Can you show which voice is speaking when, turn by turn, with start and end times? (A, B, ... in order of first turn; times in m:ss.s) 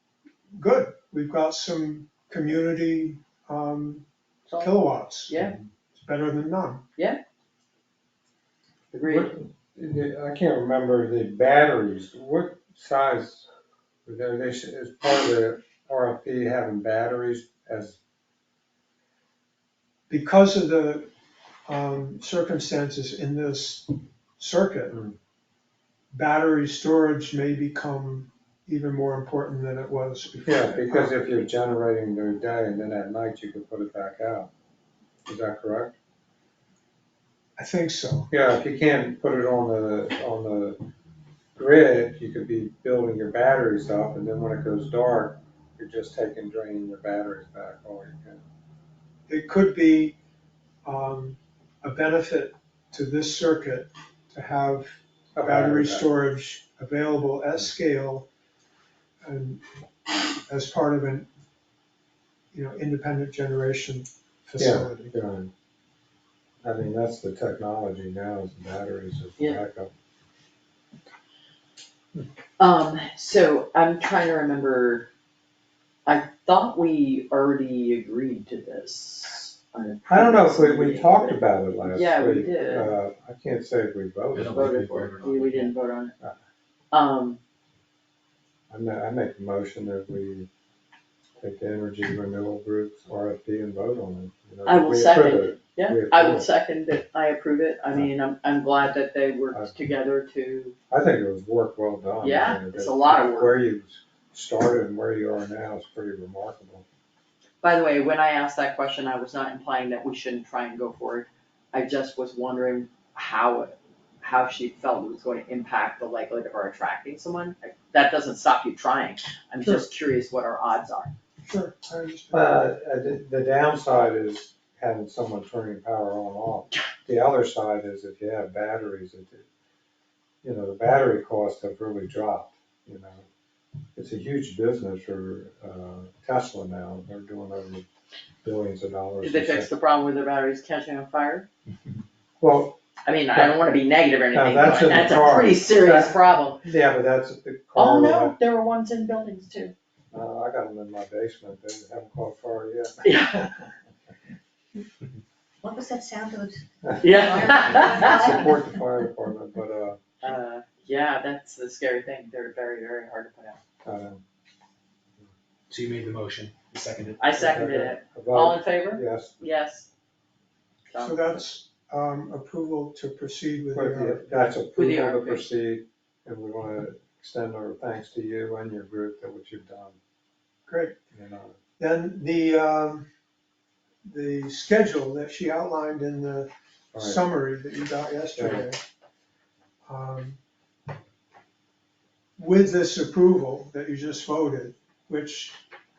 0:00.6-0:04.0 A
0:04.6-0:06.8 A
0:05.2-0:05.5 B
0:08.9-0:09.3 B
0:09.0-0:13.5 C
0:14.0-0:18.0 C
0:20.1-0:21.1 A
0:21.7-0:25.0 A
0:26.1-0:31.1 A
0:30.4-0:34.5 C
0:35.2-0:36.0 C
0:37.6-0:38.3 A
0:38.3-0:40.8 C
0:41.6-0:48.4 C
0:49.3-0:50.2 A
0:50.8-0:58.3 A
0:55.3-0:56.0 C
0:59.2-1:01.3 A
1:02.5-1:05.1 A
1:04.6-1:05.5 C
1:06.6-1:09.9 C
1:12.6-1:15.1 B
1:16.0-1:22.9 B
1:20.1-1:25.1 C
1:24.3-1:25.7 D
1:24.5-1:26.1 B
1:26.9-1:27.4 B
1:28.7-1:30.5 C
1:31.4-1:36.5 C
1:34.6-1:40.8 B
1:40.9-1:46.8 C
1:42.2-1:43.6 B
1:47.6-2:01.1 B
2:01.4-2:02.6 A
2:02.3-2:09.4 C
2:10.4-2:13.2 C
2:13.9-2:17.8 C
2:18.4-2:19.7 C
2:19.2-2:21.5 B
2:22.4-2:22.8 C
2:23.0-2:26.6 B
2:24.3-2:28.3 C
2:27.8-2:29.7 B
2:30.1-2:33.7 C
2:33.0-2:33.5 B
2:35.6-2:36.6 E
2:36.9-2:40.0 C
2:37.0-2:38.5 B
2:37.1-2:38.6 E
2:40.2-2:43.6 B
2:43.8-2:44.2 C
2:45.7-2:47.4 D
2:47.2-2:49.9 B
2:47.4-2:49.4 C
2:50.9-2:51.4 B
2:51.0-2:54.5 A
2:53.7-3:00.0 C
2:54.7-2:55.5 B
3:00.7-3:01.0 A
3:01.1-3:01.6 C
3:01.8-3:03.1 A
3:04.0-3:08.8 A
3:06.9-3:07.2 C
3:08.4-3:08.7 C
3:09.8-3:10.4 A
3:12.4-3:15.6 A